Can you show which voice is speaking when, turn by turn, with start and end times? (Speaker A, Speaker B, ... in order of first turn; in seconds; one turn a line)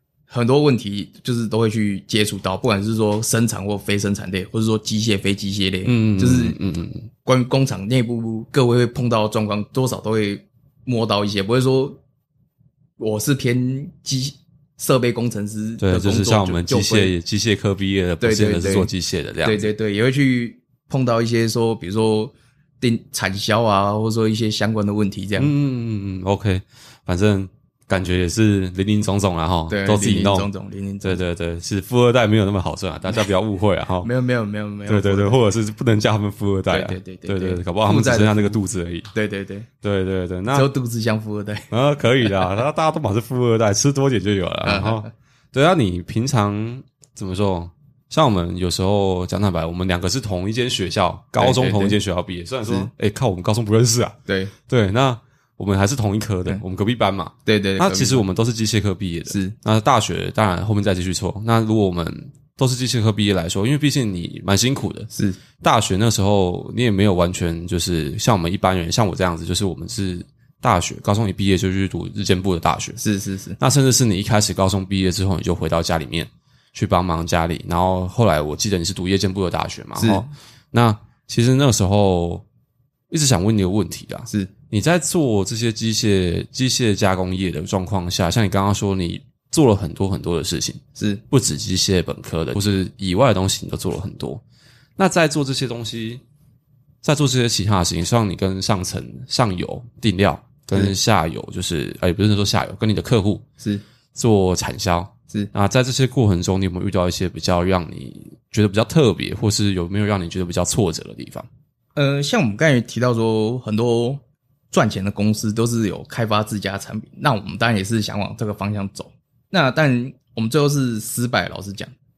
Speaker A: 0.3-6.6
Speaker B: 5.8-7.1
Speaker A: 7.2-12.0
Speaker A: 13.0-17.1
Speaker B: 15.8-19.7
Speaker A: 18.2-18.9
Speaker A: 19.4-25.5
Speaker B: 25.4-30.5
Speaker A: 29.7-31.2
Speaker B: 31.0-34.1
Speaker A: 34.0-35.4
Speaker B: 34.9-39.1
Speaker A: 36.7-38.6
Speaker A: 39.1-39.7
Speaker B: 39.8-40.7
Speaker A: 40.5-41.7
Speaker B: 41.7-65.1
Speaker A: 44.6-45.1
Speaker A: 51.4-52.0
Speaker A: 54.3-54.5
Speaker A: 57.5-58.2
Speaker A: 59.3-59.5
Speaker A: 65.1-65.4
Speaker B: 65.6-73.0
Speaker A: 73.0-73.6
Speaker B: 73.6-82.4
Speaker A: 80.0-80.3
Speaker B: 83.1-94.4
Speaker A: 91.0-91.2
Speaker B: 95.0-96.2
Speaker B: 97.0-103.4
Speaker B: 104.1-111.5
Speaker A: 112.0-121.9